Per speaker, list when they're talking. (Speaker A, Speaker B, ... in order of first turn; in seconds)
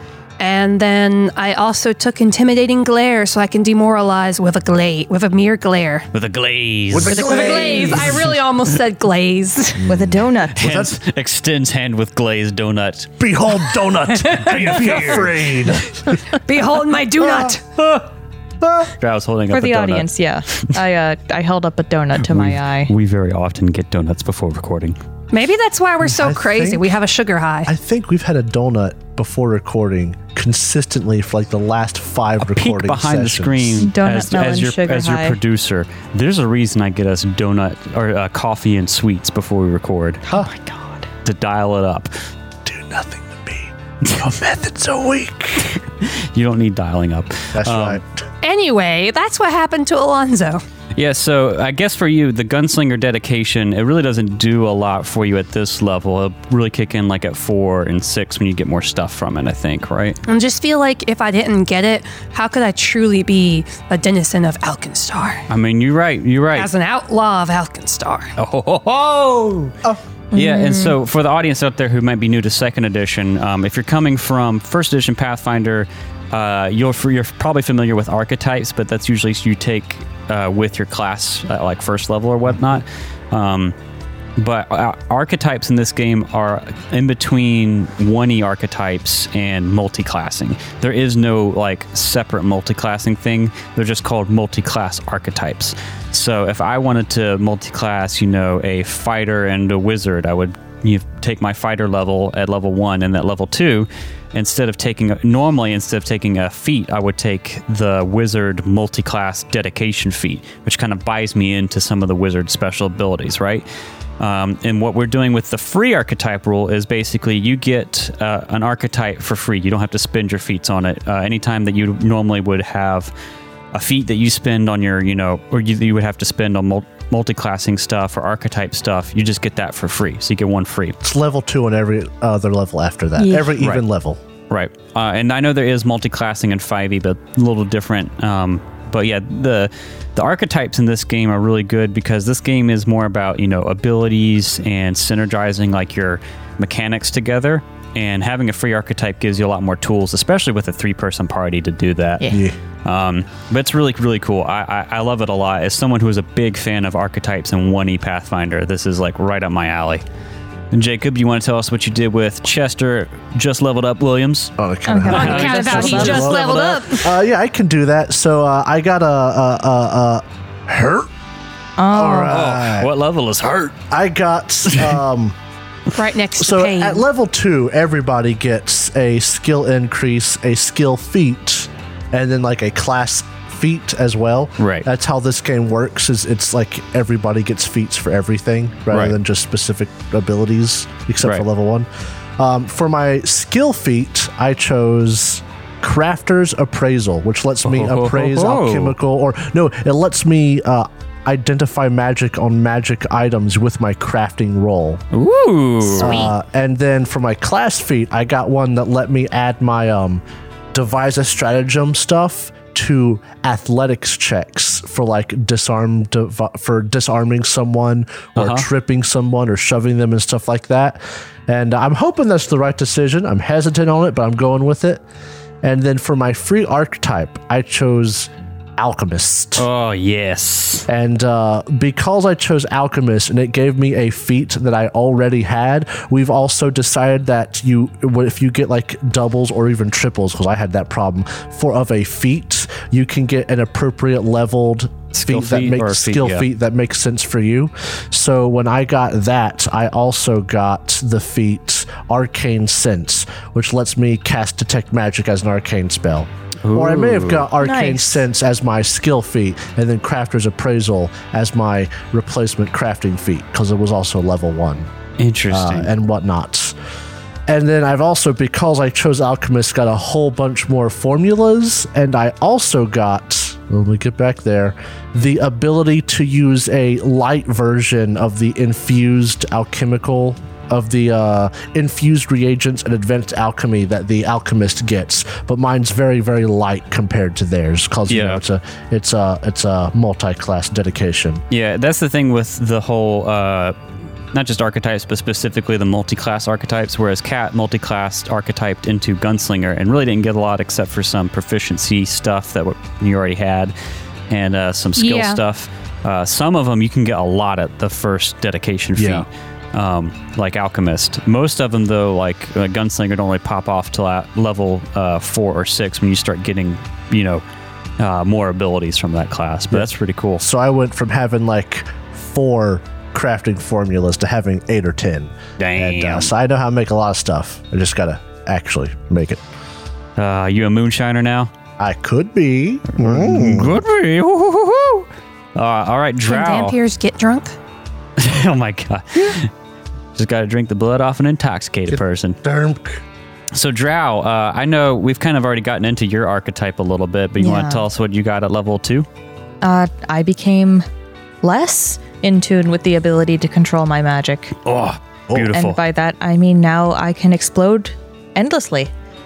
Speaker A: 0.4-6.1, 7.1-9.8, 16.3-17.6, 25.3-27.7, 48.4-50.6, 60.3-65.5, 66.5-68.3, 165.1-167.1, 175.9-177.0, 205.9-206.3, 305.0-305.4, 336.3-337.6
Speaker B: 6.1-7.3, 10.5-13.2, 14.4-15.2, 19.0-20.7, 22.2-25.0, 32.4-40.2, 41.2-42.1, 45.7-48.0, 51.0-60.2, 65.5-66.7, 68.4-69.8, 70.3-83.8, 84.4-113.7, 114.2-123.1, 123.7-131.0, 134.5-152.3, 152.8-160.0, 160.7-164.5, 165.1-167.0, 172.3-173.8, 184.6-184.9, 188.9-189.2, 197.6-199.0, 205.1-206.3, 218.4-218.7, 229.6-230.9, 245.1-246.5, 256.6-257.5, 265.2-265.9, 288.1-288.4, 291.5-293.8, 294.3-303.7, 304.3-317.4, 318.0-320.4, 325.6-326.3, 330.2-331.5, 332.9-336.8, 338.2-339.5, 340.1-342.4, 343.5-349.1, 354.6-355.8
Speaker C: 6.9-8.3, 9.8-11.0, 13.2-16.2, 17.2-18.0, 18.6-18.9, 26.0-26.9, 27.7-33.9, 42.6-45.8, 47.5-48.2, 131.0-134.2, 152.3-152.6, 164.6-171.1, 171.9-172.9, 173.9-175.4, 176.4-191.9, 192.4-205.0, 206.0-210.2, 210.7-225.0, 225.6-229.7, 230.9-264.9, 265.5-266.8, 267.5-291.4, 309.0-309.3, 320.4-329.4, 331.8-333.8, 341.9-343.0
Speaker D: 7.1-8.1, 9.9-10.7, 19.5-22.9, 33.8-35.4, 40.3-41.1, 70.3-71.0, 133.2-133.5, 152.2-152.5, 164.9-166.3, 171.8-172.4, 257.6-258.2, 347.4-347.9, 349.6-350.9, 351.4-354.6, 355.4-358.9